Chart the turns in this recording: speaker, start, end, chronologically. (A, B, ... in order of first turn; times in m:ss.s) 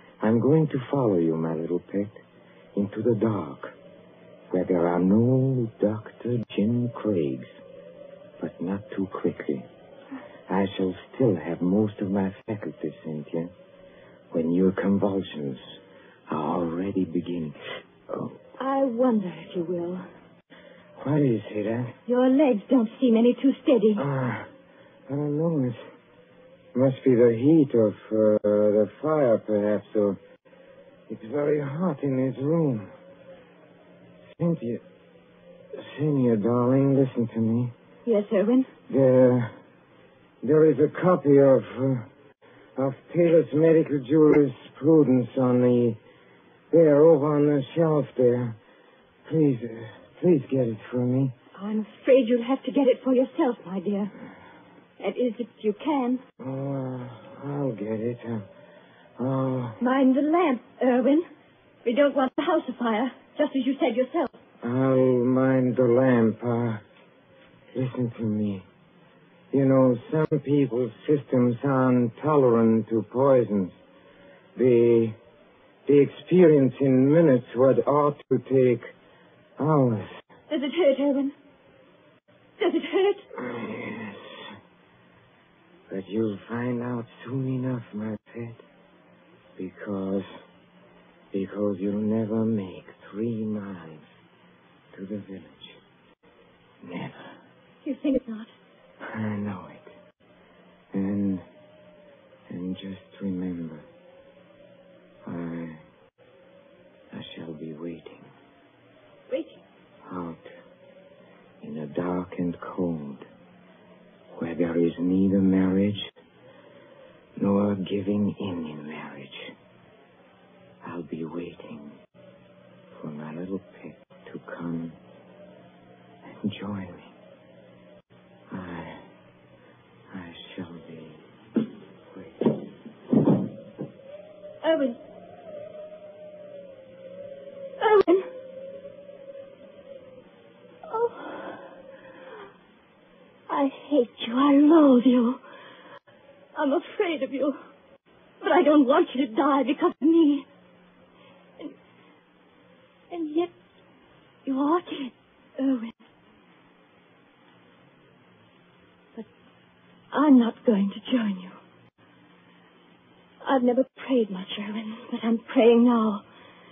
0:00.2-0:02.2 A
0:02.7-0:03.8 A
0:04.5-0:07.5 A
0:08.4-0:09.7 A
0:10.5-0:13.5 A
0:14.3-0:15.6 A
0:16.3-0:18.3 A
0:18.6-0:20.0 B
0:21.0-0:21.9 A
0:22.1-0:24.0 B
0:24.0-0:24.5 A
0:25.1-0:25.8 A
0:26.7-0:30.2 A
0:31.1-0:32.9 A
0:34.3-0:34.8 A
0:35.7-0:37.7 A
0:38.0-0:38.7 B
0:38.9-0:39.5 A
0:40.4-0:42.1 A
0:42.8-0:46.0 A
0:46.7-0:48.6 A
0:49.2-0:51.3 A
0:51.5-0:54.1 B
0:55.0-0:56.2 B
0:56.4-0:58.4 A
0:59.2-0:59.8 A
0:59.8-1:01.3 B
1:01.8-1:04.4 B
1:04.6-1:06.8 A
1:07.7-1:08.6 A
1:09.5-1:13.8 A
1:14.6-1:15.2 A
1:15.8-1:18.9 A
1:19.6-1:20.1 A
1:20.5-1:21.3 B
1:22.6-1:23.2 B
1:23.4-1:24.5 A
1:25.9-1:28.6 A
1:29.6-1:30.3 A
1:31.3-1:34.1 A
1:34.9-1:35.8 A
1:36.8-1:37.1 A
1:37.8-1:38.5 B
1:39.0-1:39.9 A
1:40.9-1:41.4 A
1:42.5-1:43.8 A
1:45.2-1:45.8 A
1:47.1-1:48.3 A
1:49.3-1:49.6 B
1:50.0-1:50.5 A
1:51.6-1:53.2 A
1:54.3-1:56.1 A
1:57.4-1:59.5 A
2:00.8-2:02.0 A
2:03.0-2:05.0 A
2:06.3-2:07.1 A
2:08.5-2:09.0 A
2:10.1-2:11.2 A
2:12.1-2:12.5 A
2:14.6-2:15.0 B
2:17.8-2:18.3 B
2:20.9-2:21.6 B
2:23.5-2:25.4 B
2:26.6-2:27.6 B
2:28.4-2:30.4 B
2:33.1-2:33.5 B
2:34.4-2:36.0 B
2:40.1-2:41.6 B
2:43.4-2:46.2 B